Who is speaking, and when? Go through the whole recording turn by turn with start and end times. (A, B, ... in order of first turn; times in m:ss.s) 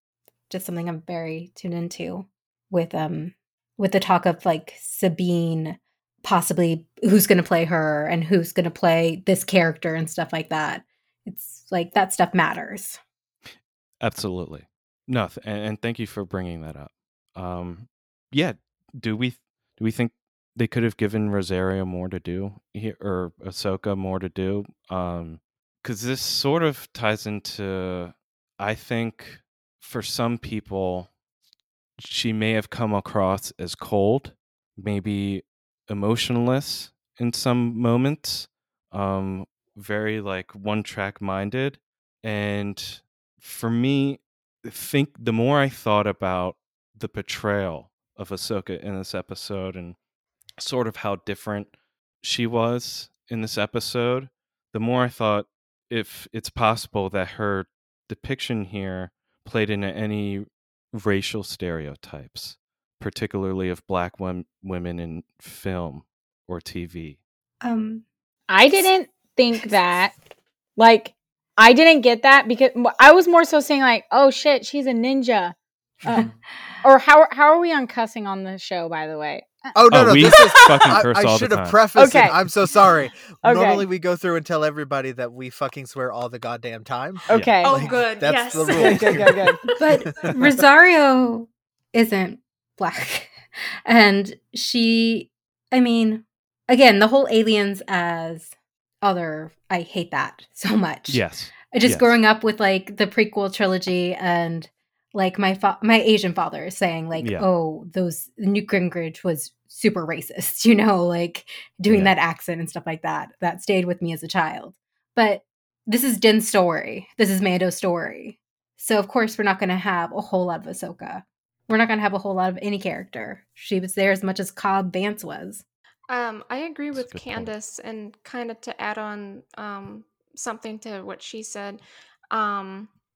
0:00.5-0:13.0 A
0:14.0-0:31.1 B
0:32.0-0:50.0 B
0:50.6-1:07.2 B
1:07.6-1:08.0 A
1:08.5-1:10.1 C
1:10.8-1:15.6 C
1:16.1-1:16.8 A
1:16.1-1:16.4 D
1:16.8-1:21.0 C
1:19.7-1:29.3 D
1:19.9-1:21.9 B
1:21.9-1:22.4 C
1:23.4-1:23.9 C
1:27.3-1:27.6 B
1:27.3-1:28.0 C
1:27.5-1:30.3 E
1:28.6-1:29.6 C
1:29.8-1:38.5 A
1:30.1-1:30.5 D
1:39.0-2:05.6 A
1:41.1-1:42.2 B
1:47.2-1:47.5 B
1:51.9-1:52.1 B
2:06.1-2:12.9 E
2:06.9-2:07.5 B